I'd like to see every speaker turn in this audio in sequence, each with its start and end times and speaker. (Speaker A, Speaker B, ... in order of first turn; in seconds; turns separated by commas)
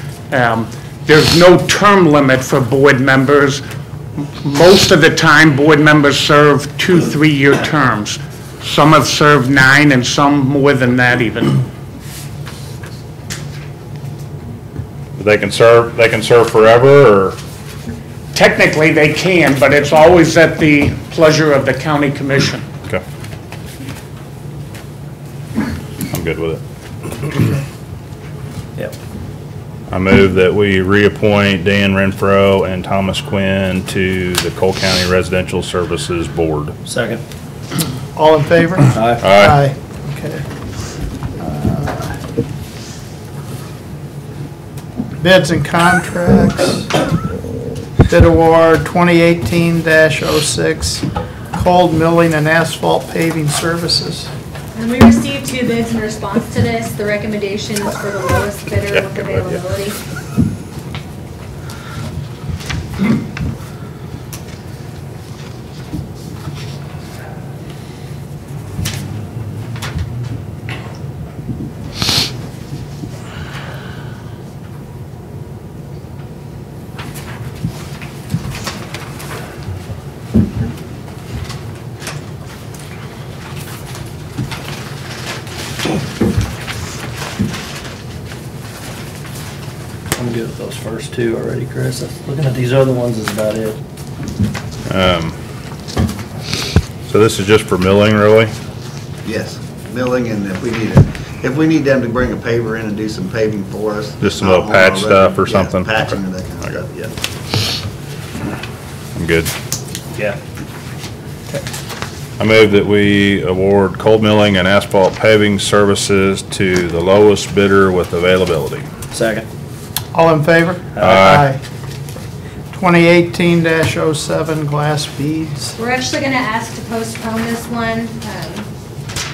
Speaker A: 0.3-3.6, Speaker A: 4.4-11.6, Speaker B: 15.2-17.4, Speaker A: 18.3-22.6, Speaker B: 26.1-26.6, Speaker B: 29.9-36.8, Speaker C: 36.9-37.2, Speaker D: 38.1-40.5, Speaker C: 38.9-39.3, Speaker B: 39.2-39.6, Speaker D: 41.4-42.2, Speaker D: 45.2-46.9, Speaker D: 48.1-54.3, Speaker E: 54.7-60.0, Speaker C: 90.2-93.8, Speaker B: 94.9-95.4, Speaker B: 97.1-98.5, Speaker F: 99.2-107.2, Speaker B: 104.2-106.8, Speaker B: 109.2-109.5, Speaker B: 112.4-118.9, Speaker C: 119.1-119.5, Speaker D: 120.1-121.6, Speaker B: 121.0-121.5, Speaker D: 122.7-125.8, Speaker E: 125.8-128.7